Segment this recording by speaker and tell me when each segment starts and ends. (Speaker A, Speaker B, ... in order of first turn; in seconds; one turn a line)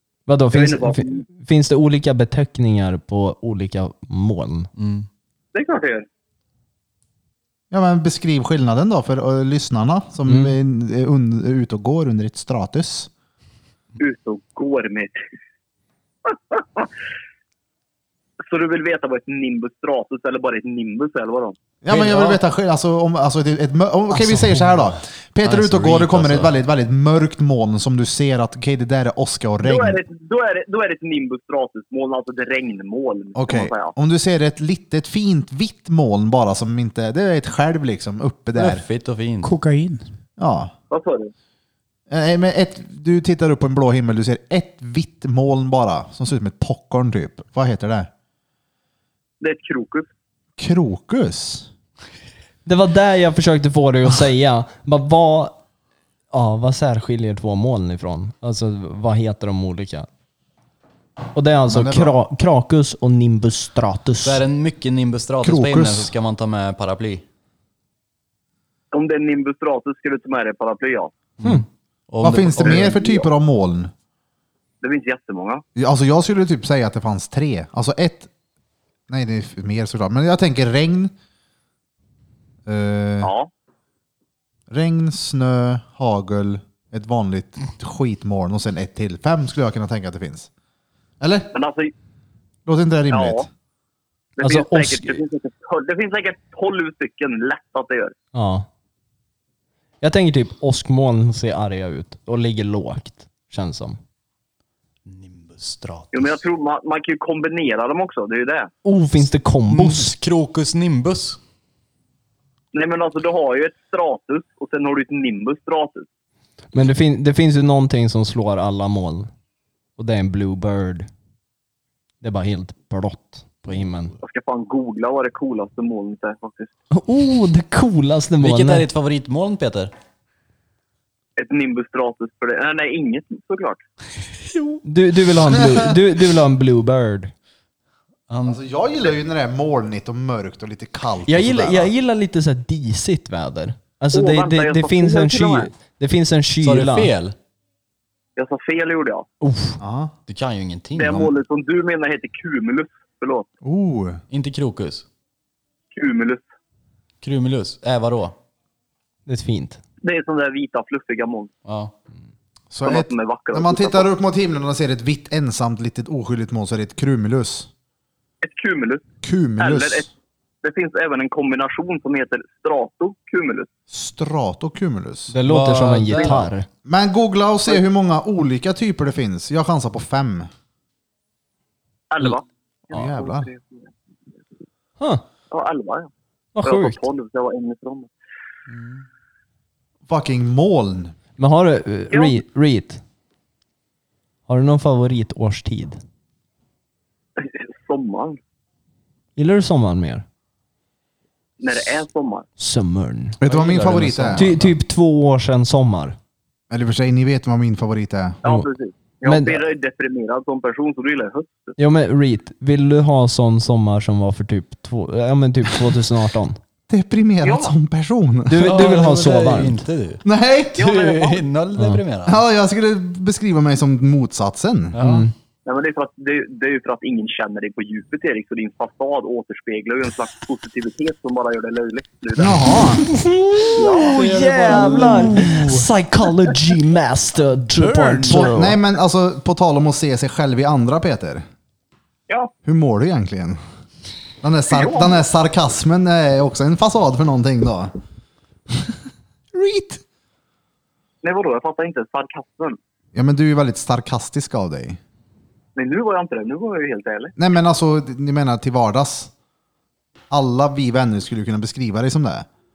Speaker A: 0.3-4.7
Speaker B: 0.5-1.2
Speaker C: 4.8-5.1
Speaker B: 5.5-6.0
Speaker D: 7.7-13.1
Speaker A: 10.3-10.5
Speaker B: 14.0-15.2
Speaker B: 16.2-16.9
Speaker B: 18.4-21.6
Speaker D: 21.8-30.0
Speaker C: 21.9-22.4
Speaker C: 24.3-24.8
Speaker C: 25.4-26.5
Speaker B: 29.6-33.9
Speaker D: 33.3-38.8
Speaker C: 38.5-39.5
Speaker E: 39.4-40.0
Speaker D: 40.4-40.7
Speaker B: 40.9-41.3
Speaker D: 42.1-48.1
Speaker B: 49.4-50.1
Speaker D: 50.6-51.7
Speaker A: 52.6-55.5
Speaker A: 56.3-60.1
Speaker A: 61.3-64.4
Speaker D: 61.7-62.1
Speaker C: 64.2-67.2
Speaker D: 65.4-66.1
Speaker B: 68.9-71.1
Speaker C: 71.4-73.0
Speaker D: 72.2-73.9
Speaker B: 72.7-73.2
Speaker B: 74.8-75.6
Speaker D: 75.8-78.3
Speaker D: 79.1-81.1
Speaker D: 82.7-83.3
Speaker B: 83.2-83.5
Speaker D: 84.7-90.5
Speaker D: 91.2-91.5
Speaker B: 91.5-91.9
Speaker D: 92.7-93.5
Speaker B: 93.1-93.5
Speaker B: 94.4-98.1
Speaker A: 94.4-95.2
Speaker A: 98.3-98.7
Speaker A: 100.0-104.0
Speaker C: 105.0-106.4
Speaker B: 106.1-108.7
Speaker A: 108.8-110.1
Speaker C: 109.7-111.4
Speaker B: 112.7-116.1
Speaker A: 116.7-119.3
Speaker A: 120.0-121.1
Speaker A: 122.2-124.1
Speaker B: 124.2-126.7
Speaker A: 126.9-128.8
Speaker C: 128.4-129.9
Speaker B: 131.4-133.8
Speaker C: 134.5-134.8
Speaker A: 134.8-137.3
Speaker D: 135.6-135.9
Speaker C: 138.3-138.6
Speaker D: 138.4-141.9
Speaker A: 141.2-147.1
Speaker B: 144.1-145.7
Speaker C: 146.6-147.3
Speaker B: 148.3-149.2
Speaker A: 149.4-149.8
Speaker D: 149.8-150.1
Speaker C: 150.3-151.3
Speaker B: 150.9-153.5
Speaker D: 153.6-154.2
Speaker C: 154.3-155.0
Speaker B: 155.9-156.4
Speaker C: 157.2-158.3
Speaker A: 159.3-159.8
Speaker B: 160.0-161.5
Speaker C: 161.6-161.9
Speaker D: 162.7-167.7
Speaker B: 162.8-164.1
Speaker B: 168.4-169.0
Speaker D: 169.2-170.1
Speaker B: 169.6-170.1
Speaker B: 170.6-173.7
Speaker D: 173.9-175.3
Speaker A: 175.3-176.7
Speaker C: 175.4-176.5
Speaker D: 176.8-180.5
Speaker B: 182.1-183.9
Speaker D: 182.9-183.5
Speaker B: 185.5-186.1
Speaker A: 186.5-187.0
Speaker B: 186.6-188.1
Speaker C: 188.7-189.0
Speaker D: 190.1-191.1
Speaker A: 191.4-193.0
Speaker B: 192.1-192.4
Speaker A: 194.5-196.0
Speaker B: 197.4-198.4
Speaker A: 199.3-200.2
Speaker B: 201.6-202.5
Speaker A: 202.6-203.4
Speaker D: 203.4-204.5
Speaker C: 203.4-204.7
Speaker A: 204.3-206.2
Speaker D: 206.7-208.4
Speaker B: 208.4-211.7
Speaker A: 209.2-209.6
Speaker A: 211.8-216.6
Speaker D: 216.9-218.9
Speaker B: 217.4-217.7
Speaker A: 218.5-219.8
Speaker C: 218.6-220.2
Speaker D: 220.2-220.9
Speaker B: 220.8-221.4
Speaker C: 220.8-222.4
Speaker D: 222.3-225.0
Speaker C: 224.9-225.2
Speaker A: 225.0-225.3
Speaker B: 225.7-232.6
Speaker D: 232.3-233.0
Speaker A: 233.0-238.8
Speaker B: 233.8-235.2
Speaker C: 233.8-235.7
Speaker E: 234.7-235.8
Speaker E: 237.8-238.6
Speaker D: 238.2-241.4
Speaker D: 242.6-243.6
Speaker D: 244.4-247.9
Speaker B: 244.7-245.2
Speaker D: 248.7-249.0
Speaker D: 249.5-250.0
Speaker B: 251.2-252.8
Speaker D: 253.1-255.0
Speaker B: 255.8-257.3
Speaker D: 257.4-259.3
Speaker D: 260.3-262.5